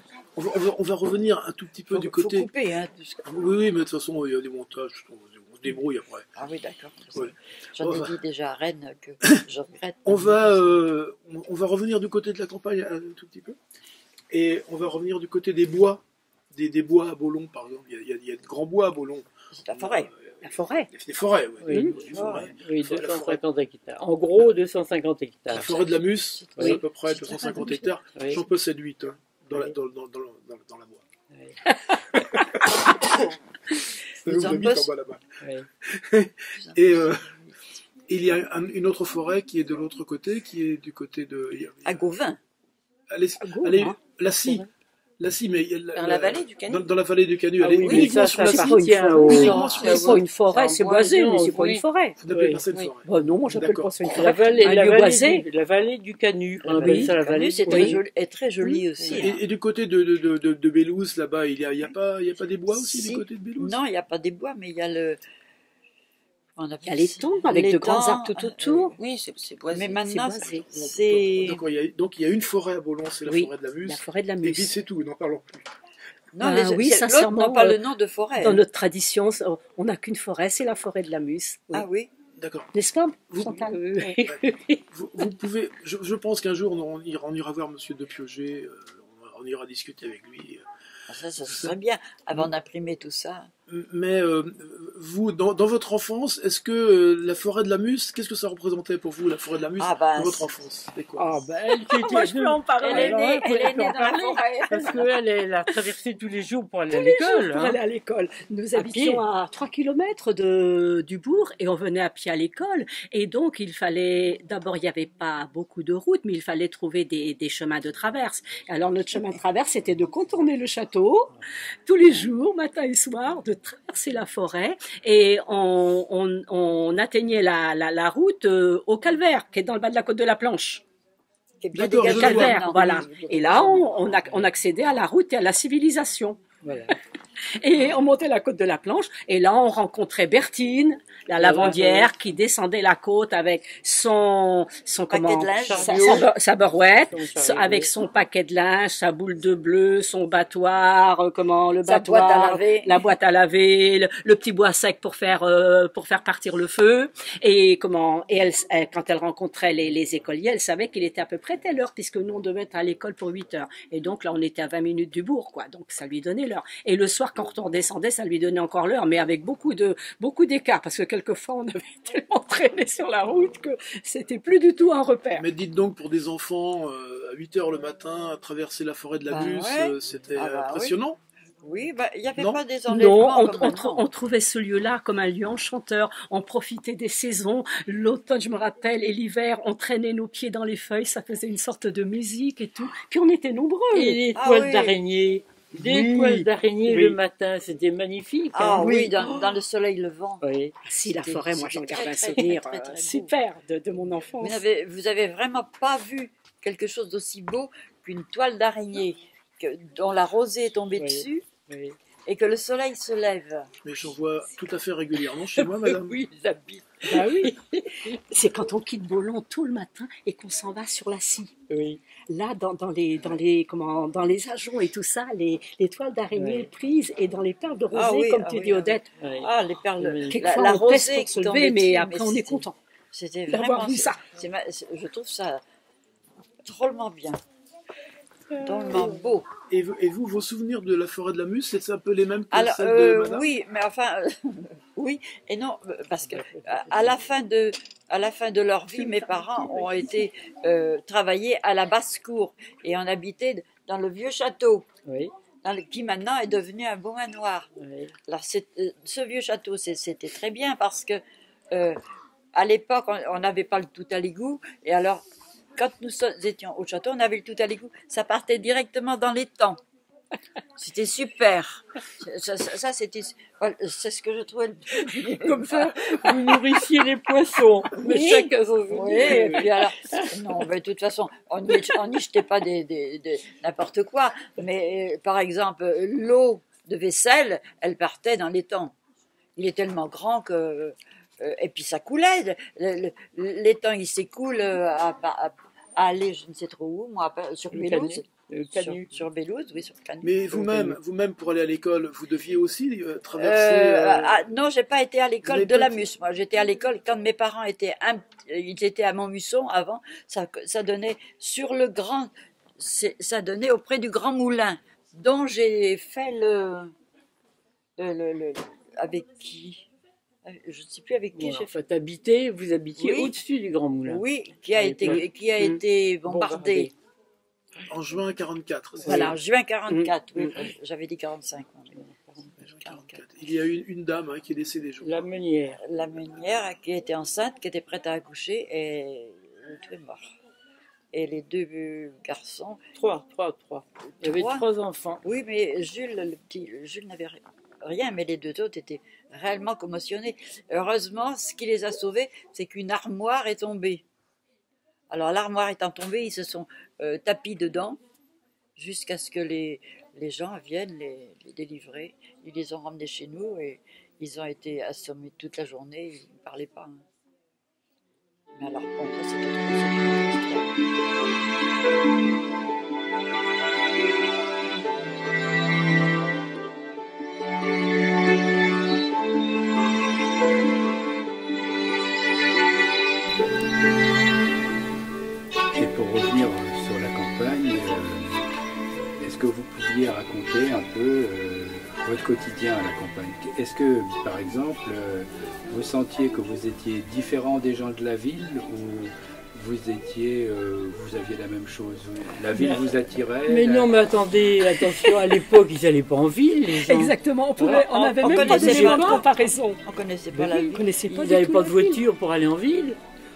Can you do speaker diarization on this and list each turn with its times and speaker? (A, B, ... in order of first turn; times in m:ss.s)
0:00.4-0:02.5 A
0:01.9-0:03.4 B
0:03.3-0:06.3 A
0:06.4-0:10.4 B
0:07.2-0:08.2 A
0:10.0-0:13.6 A
0:14.3-0:16.0 A
0:16.5-0:23.4 A
0:19.5-0:20.1 B
0:20.4-0:20.9 C
0:21.6-0:25.8 D
0:22.1-0:22.5 B
0:25.5-0:31.0 A
0:26.4-0:27.6 B
0:27.5-0:27.8 C
0:31.7-0:32.0 C
0:32.2-0:32.6 A
0:34.2-0:37.3 A
0:34.2-0:34.9 B
0:36.6-0:37.6 B
0:38.1-0:42.0 A
0:41.8-0:42.4 B
0:43.1-0:44.7 A
0:43.4-0:44.7 C
0:45.2-0:50.2 A
0:46.0-0:46.9 E
0:47.6-0:52.6 D
0:48.4-0:52.2 C
0:49.3-0:50.9 E
0:52.2-0:53.9 A
0:53.0-0:55.4 C
0:54.0-0:58.0 D
0:56.7-0:59.4 B
0:56.7-0:57.1 C
0:57.7-0:58.0 C
0:59.0-0:59.2 E
0:59.2-1:03.8 A
1:02.7-1:05.2 B
1:06.6-1:09.0 B
1:06.8-1:09.0 C
1:09.0-1:10.7 E
1:09.7-1:11.6 B
1:10.1-1:10.7 C
1:10.7-1:15.7 A
1:13.3-1:14.7 C
1:16.3-1:18.6 B
1:16.4-1:17.8 C
1:18.4-1:21.9 C
1:21.7-1:22.1 B
1:22.4-1:22.7 A
1:22.7-1:24.3 C
1:23.3-1:23.6 A
1:24.0-1:24.8 D
1:24.2-1:30.6 A
1:31.1-1:33.5 B
1:31.5-1:31.7 A
1:33.7-1:41.4 A
1:39.8-1:40.5 B
1:41.2-1:45.0 C
1:41.6-1:47.8 D
1:42.8-1:45.1 B
1:46.9-2:01.3 C
1:48.8-1:49.2 D
2:01.9-2:10.8 C
2:11.6-2:14.0 B
2:11.7-2:12.7 A
2:12.0-2:16.4 C
2:16.6-2:17.0 D
2:17.6-2:55.5 C
2:21.4-2:22.1 D
2:25.1-2:26.3 B
2:25.6-2:27.9 D
2:31.9-2:33.1 B
2:55.4-3:01.2 A
2:59.3-3:01.0 B
3:01.6-3:04.1 B
3:02.9-3:14.2 C
3:13.9-3:19.6 D
3:14.4-3:15.0 B
3:15.8-3:17.2 C
3:18.5-3:20.4 B
3:20.4-3:20.8 D
3:20.8-3:24.6 C
3:21.0-3:23.3 B
3:24.4-3:31.5 B
3:31.0-3:32.0 D
3:32.3-3:33.7 B
3:33.8-3:36.2 A
3:35.6-3:38.2 D
3:36.4-3:36.8 B
3:37.1-3:37.6 C
3:38.3-3:41.5 C
3:41.7-3:42.0 D
3:42.3-3:49.1 C
3:46.4-3:46.7 D
3:47.9-3:55.6 B
3:49.2-3:50.4 D
3:50.3-3:52.8 C
3:53.5-3:54.2 C
3:56.6-3:57.4 B
3:58.6-3:59.5 B
3:58.6-3:59.0 D
3:59.7-4:03.5 A
4:02.5-4:14.9 B
4:06.3-4:06.9 D
4:15.1-4:15.3 D
4:15.6-4:17.7 B
4:17.8-4:18.1 D
4:18.3-4:21.2 B
4:21.7-4:22.0 B
4:22.5-4:25.2 B
4:25.8-4:29.8 B
4:30.8-4:36.7 B
4:35.7-4:40.3 D
4:38.0-4:49.0 B
4:39.1-4:39.6 C
4:49.6-5:01.0 B
4:57.7-4:59.1 D
5:00.2-5:04.4 A
5:03.4-5:16.9 B
5:05.4-5:06.0 A
5:18.0-5:19.9 B
5:20.4-5:21.8 B
5:21.4-5:24.2 D
5:23.0-5:23.4 B
5:24.0-5:26.9 B
5:24.8-5:25.7 D
5:26.3-5:26.9 D
5:27.9-5:29.3 A
5:29.1-5:32.0 B
5:29.1-5:29.3 C
5:29.9-5:30.5 C
5:32.0-5:32.5 D
5:32.6-5:35.3 A
5:32.6-5:33.2 B
5:35.0-5:35.8 D
5:35.8-5:40.3 B
5:41.1-5:42.8 B
5:43.0-5:45.2 D
5:44.2-5:44.6 B
5:45.2-5:54.0 B
5:55.1-5:58.0 B
5:58.8-6:07.0 B
6:08.6-6:11.3 B
6:25.7-6:28.4 F
6:29.2-6:43.9 F
6:43.5-6:49.2 D
6:44.7-6:45.4 C
6:46.8-6:49.8 C
6:47.7-6:49.3 B
6:49.8-6:51.0 B
6:50.3-6:53.0 D
6:50.7-6:52.0 C